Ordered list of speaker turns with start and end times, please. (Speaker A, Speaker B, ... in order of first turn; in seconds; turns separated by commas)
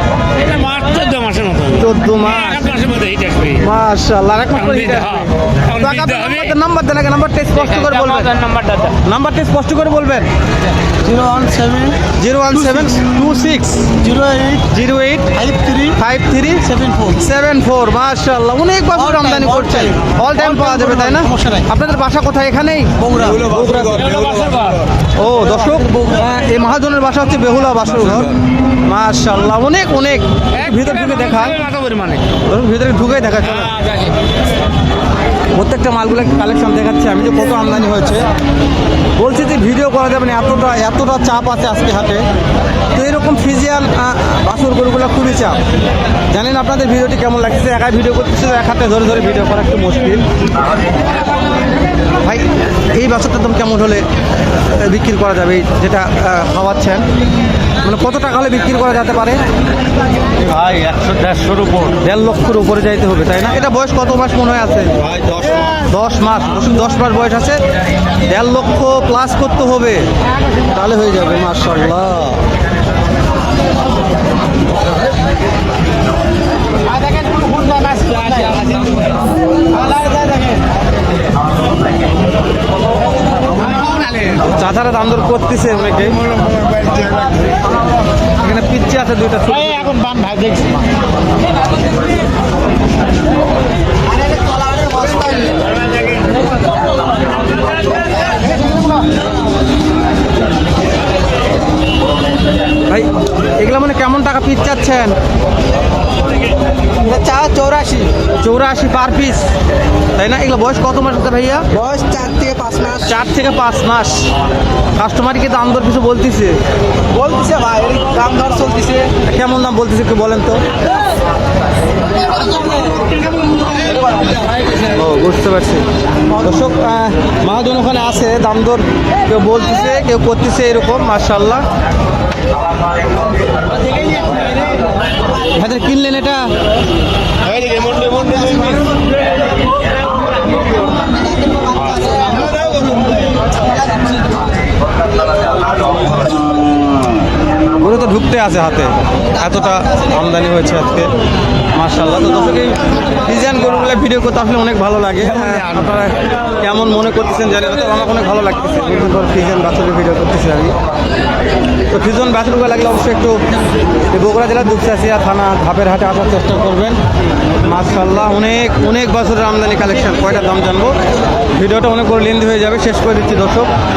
Speaker A: 0.3-3.7, Speaker B: 1.8-2.7, Speaker B: 3.6-8.3, Speaker A: 4.5-6.5, Speaker A: 7.5-8.9, Speaker B: 9.0-10.3, Speaker C: 11.0-12.0, Speaker B: 12.2-13.9, Speaker C: 12.6-13.0, Speaker C: 14.0-14.7, Speaker B: 14.7-15.3, Speaker C: 15.3-15.9, Speaker B: 15.9-24.2, Speaker C: 16.6-17.2, Speaker C: 18.9-21.6, Speaker C: 23.0-23.7, Speaker A: 23.7-24.9, Speaker B: 25.1-28.3, Speaker B: 28.8-31.6, Speaker A: 30.5-32.3, Speaker B: 32.4-33.7, Speaker A: 33.4-34.2, Speaker B: 35.5-38.3, Speaker B: 39.2-42.2, Speaker B: 42.9-45.6, Speaker B: 46.3-50.2, Speaker B: 52.2-54.0, Speaker B: 54.7-57.0, Speaker B: 57.8-59.4, Speaker D: 60.3-62.0, Speaker B: 62.0-64.9, Speaker D: 65.0-65.7, Speaker B: 65.7-67.6, Speaker B: 68.2-72.4, Speaker A: 76.9-79.1, Speaker A: 79.7-80.6, Speaker A: 83.8-84.3, Speaker B: 84.3-86.2, Speaker B: 88.4-89.9, Speaker A: 89.5-90.9, Speaker C: 94.1-95.5, Speaker B: 102.9-105.1, Speaker C: 107.0-108.1, Speaker B: 108.4-109.4, Speaker B: 110.2-111.7, Speaker C: 111.7-113.1, Speaker B: 113.0-114.2, Speaker B: 115.0-116.5, Speaker C: 117.1-119.1, Speaker B: 119.2-120.6, Speaker C: 123.9-124.4, Speaker B: 124.9-125.8, Speaker B: 126.4-131.6, Speaker B: 135.5-136.5, Speaker A: 137.6-137.9, Speaker C: 137.7-138.7, Speaker C: 141.7-143.0, Speaker B: 147.7-151.1, Speaker B: 151.7-160.7, Speaker A: 155.2-156.1, Speaker B: 161.9-163.4, Speaker B: 164.1-166.9, Speaker B: 167.6-170.9, Speaker B: 171.5-173.7